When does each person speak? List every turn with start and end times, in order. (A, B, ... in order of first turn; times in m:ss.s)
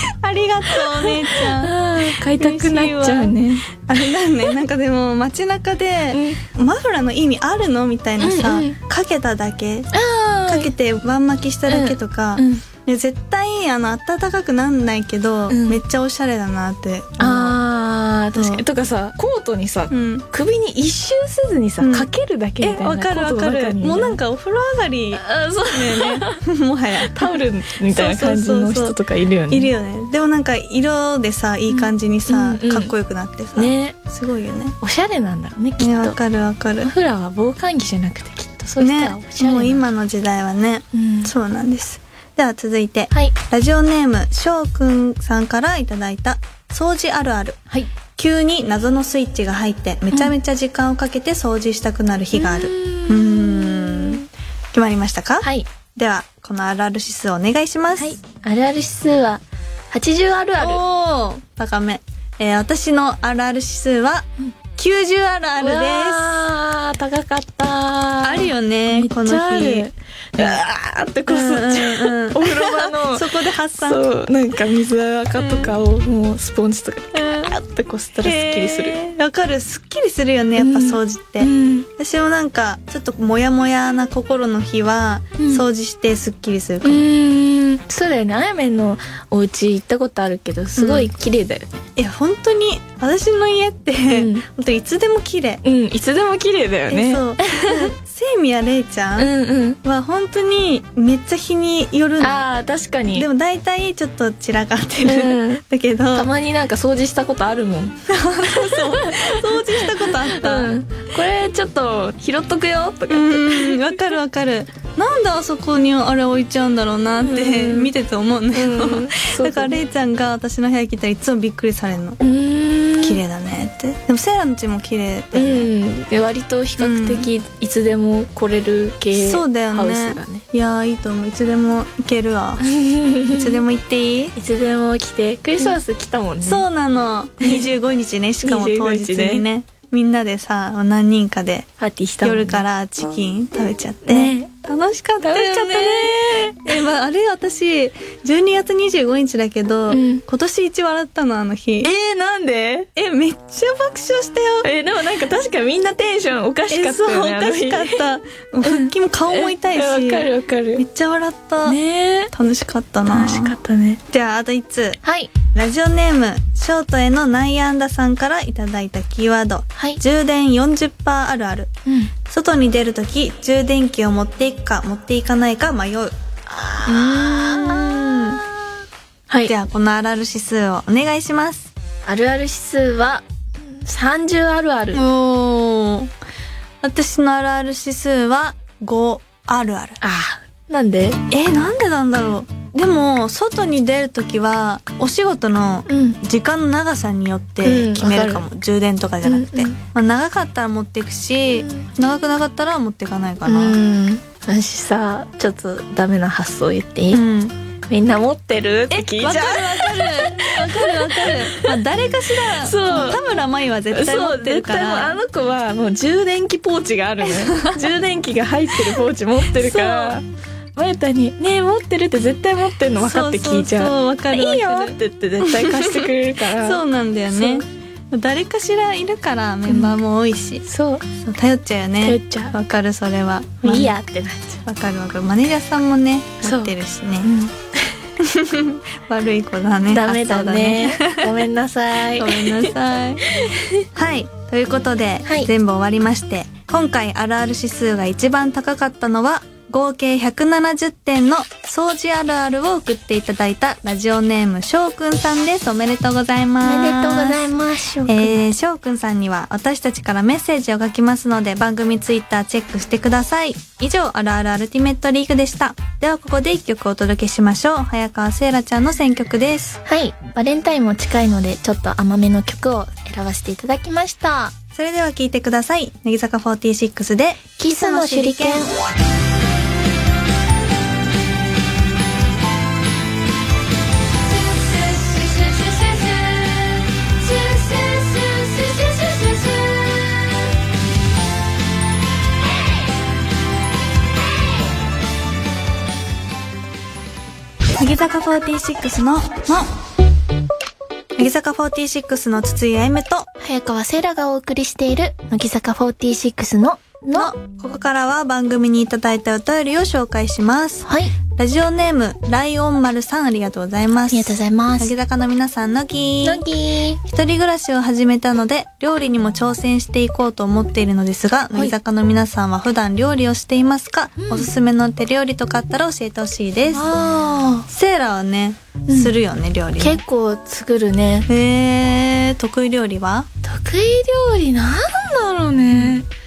0:00.2-0:09.9 A
0:00.7-0:03.7 B
0:06.1-0:06.4 B
0:08.2-0:08.8 B
0:09.9-0:10.7 B
0:10.5-0:17.6 A
0:11.7-0:12.6 B
0:15.5-0:15.8 B
0:17.2-0:24.2 B
0:18.3-0:18.6 A
0:19.9-0:20.3 A
0:21.8-0:22.1 A
0:22.6-0:29.0 A
0:25.1-0:26.4 B
0:27.0-0:29.7 B
0:29.5-0:34.8 A
0:31.7-0:32.9 B
0:33.5-0:34.0 B
0:34.8-0:36.2 B
0:35.8-0:36.9 A
0:36.8-0:39.8 B
0:38.8-0:47.6 A
0:40.9-0:41.3 B
0:48.2-0:58.2 A
0:52.3-0:54.3 B
0:55.4-0:55.7 B
0:58.0-1:00.8 B
1:00.6-1:06.5 A
1:05.6-1:19.0 B
1:08.2-1:10.6 A
1:11.3-1:14.0 A
1:15.4-1:15.7 A
1:17.1-1:17.5 A
1:18.2-1:27.0 A
1:20.6-1:21.9 B
1:25.4-1:25.6 B
1:26.8-1:31.8 B
1:30.8-1:31.1 A
1:32.0-1:35.6 A
1:34.1-1:34.4 B
1:35.6-1:37.9 B
1:36.9-1:39.3 A
1:39.2-1:39.8 B
1:39.8-1:42.4 A
1:42.2-1:43.3 B
1:43.1-1:46.3 A
1:45.0-1:45.6 B
1:46.1-1:54.0 B
1:48.1-1:50.7 A
1:53.1-2:02.2 A
1:57.2-1:57.9 B
1:58.5-1:59.8 B
2:02.2-2:03.2 B
2:03.0-2:05.7 A
2:05.3-2:10.4 B
2:06.8-2:07.3 A
2:09.1-2:12.6 A
2:12.6-2:13.6 B
2:13.3-2:14.3 A
2:14.3-2:16.6 B
2:16.4-2:21.7 A
2:17.4-2:17.7 B
2:18.4-2:19.4 B
2:21.8-2:22.6 B
2:22.2-2:31.9 A
2:24.0-2:24.5 B
2:25.2-2:26.7 B
2:29.9-2:30.2 B
2:31.8-2:32.9 B
2:33.0-2:34.7 A
2:34.6-2:38.0 B
2:36.7-2:41.8 A
2:38.6-2:40.8 B
2:41.6-2:42.3 B
2:42.3-2:43.6 A
2:43.1-2:44.0 B
2:44.1-2:45.0 A
2:45.0-2:45.3 B
2:45.5-2:51.7 A
2:52.3-2:56.1 A
2:56.5-2:58.4 B
2:56.8-2:58.4 A
2:59.3-2:59.5 B
2:59.4-3:01.7 A
3:02.0-3:05.0 B
3:04.9-3:06.1 A
3:06.8-3:10.0 A
3:10.0-3:11.2 B
3:11.3-3:23.8 A
3:15.9-3:16.2 B
3:17.6-3:18.4 B
3:19.2-3:19.8 B
3:21.5-3:21.9 B
3:23.4-3:27.2 B
3:27.1-3:27.6 A
3:27.8-3:31.8 B
3:28.9-3:35.2 A
3:32.3-3:33.4 B
3:33.9-3:40.2 B
3:37.2-3:37.9 A
3:38.8-3:40.2 A
3:40.8-3:47.6 B
3:43.0-3:54.0 A
3:49.7-3:49.9 B
3:50.6-3:51.0 B
3:52.0-3:52.5 B
3:53.6-3:54.6 B
3:54.6-3:57.3 A
3:56.4-3:57.5 B
3:58.2-4:01.4 A
3:59.9-4:02.7 B
4:02.2-4:03.2 A
4:03.3-4:03.8 B
4:03.9-4:17.5 A
4:05.2-4:05.5 B
4:16.6-4:18.4 B
4:18.0-4:29.8 A
4:29.8-4:34.5 B
4:34.7-4:38.7 A
4:37.6-4:38.7 B
4:57.8-4:59.7 A
5:01.2-5:03.3 A
5:03.4-5:07.3 B
5:07.1-5:16.4 A
5:10.8-5:11.1 B
5:14.1-5:14.9 B
5:16.2-5:17.0 B
5:17.0-5:26.9 A
5:24.2-5:24.5 B
5:26.7-5:27.7 B
5:27.7-5:30.0 A
5:28.9-5:29.1 B
5:29.8-5:31.3 B
5:31.3-5:33.3 A
5:33.4-5:36.1 B
5:35.7-5:36.0 A